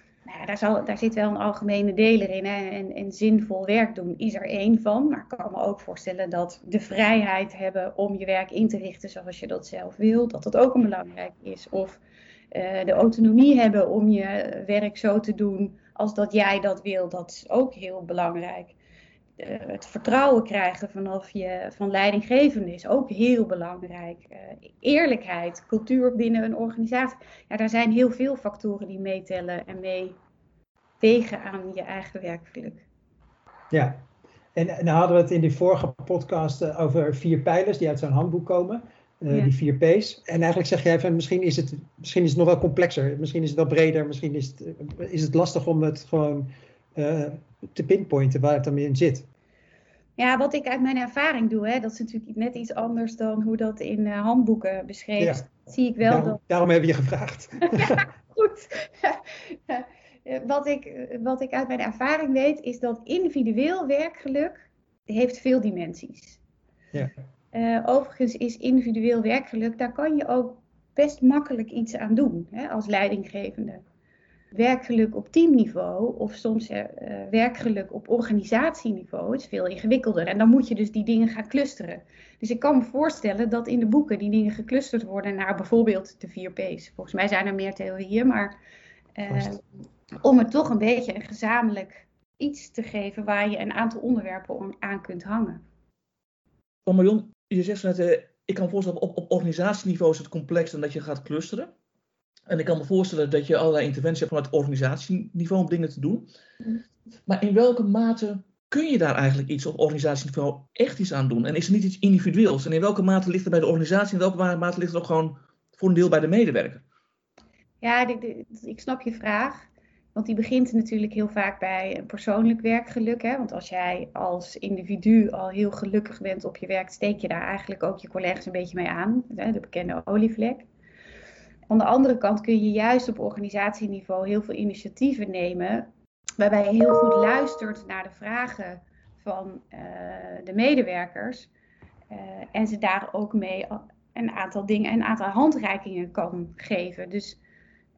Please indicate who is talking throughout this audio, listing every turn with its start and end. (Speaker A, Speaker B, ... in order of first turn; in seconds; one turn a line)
Speaker A: 0.2-12.0
Speaker A: 12.5-18.8
Speaker A: 19.4-30.2
Speaker A: 31.0-32.8
Speaker B: 33.7-34.0
Speaker B: 34.5-49.3
Speaker A: 50.2-56.4
Speaker B: 56.0-58.0
Speaker A: 57.7-66.4
Speaker A: 67.5-73.8
Speaker A: 74.5-88.5
Speaker A: 89.2-89.6
Speaker A: 90.2-95.6
Speaker C: 96.8-101.7
Speaker C: 102.5-106.2
Speaker C: 107.3-116.8
Speaker A: 117.8-130.7
Speaker A: 131.7-141.5
Speaker A: 142.1-147.4